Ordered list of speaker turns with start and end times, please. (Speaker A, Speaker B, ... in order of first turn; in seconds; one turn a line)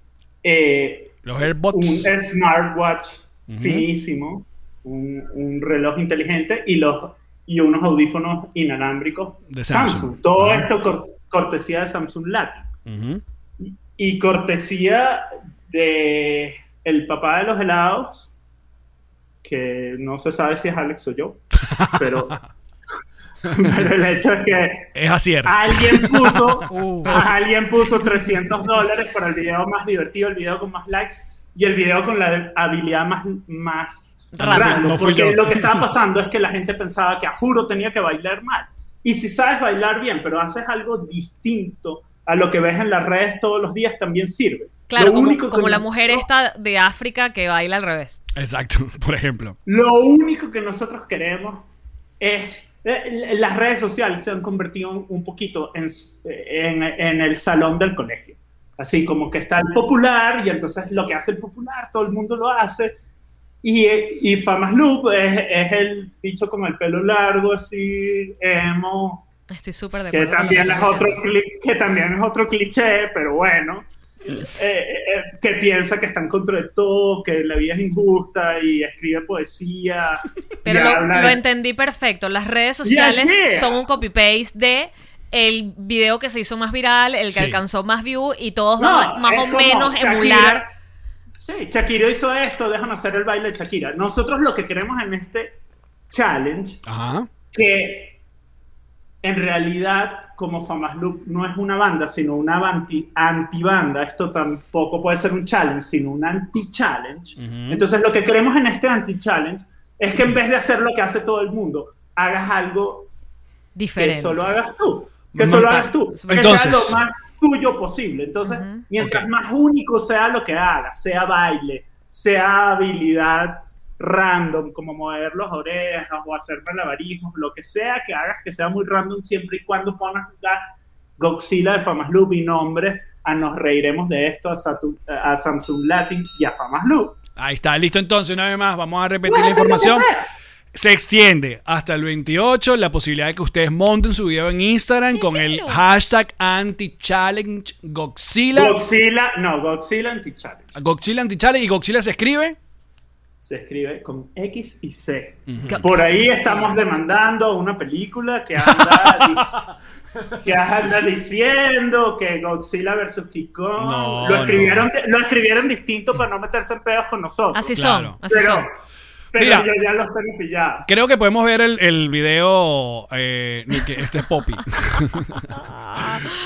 Speaker A: 0.4-12.7
Speaker B: 1.2-2.1
Speaker B: 3.5-3.9
Speaker B: 9.5-10.7
Speaker B: 12.9-13.2
Speaker A: 13.6-18.3
Speaker A: 19.4-21.4
Speaker B: 21.6-22.3
Speaker A: 21.9-22.4
Speaker B: 23.4-23.9
Speaker A: 23.5-24.9
Speaker B: 24.9-27.3
Speaker A: 25.4-46.3
Speaker C: 26.7-27.2
Speaker C: 34.3-34.9
Speaker B: 34.4-35.9
Speaker C: 44.9-48.2
Speaker B: 48.4-49.6
Speaker A: 49.7-51.7
Speaker A: 52.2-63.0
Speaker A: 63.6-69.3
Speaker C: 69.5-71.2
Speaker A: 70.1-73.9
Speaker A: 74.4-81.4
Speaker C: 80.6-90.7
Speaker A: 82.8-83.8
Speaker B: 87.3-87.6
Speaker A: 88.8-90.7
Speaker A: 91.4-96.8
Speaker B: 96.9-97.3
Speaker A: 97.5-98.2
Speaker A: 99.2-113.1
Speaker B: 107.4-107.8
Speaker C: 113.8-114.4
Speaker A: 114.0-137.2
Speaker B: 115.4-117.0
Speaker C: 115.5-116.5
Speaker C: 118.5-118.8
Speaker B: 119.0-119.3
Speaker B: 137.4-140.1
Speaker A: 139.3-140.3
Speaker B: 140.7-148.8
Speaker C: 145.1-145.8
Speaker A: 148.6-150.7
Speaker B: 150.8-152.6
Speaker A: 153.4-159.6
Speaker B: 155.5-155.8
Speaker C: 155.6-156.8
Speaker B: 158.6-160.5
Speaker A: 160.4-167.8
Speaker B: 163.8-164.9
Speaker C: 167.5-168.7
Speaker B: 167.8-168.2
Speaker A: 168.3-168.8
Speaker A: 169.3-170.9
Speaker B: 169.4-169.7
Speaker B: 170.9-175.6
Speaker C: 175.5-176.3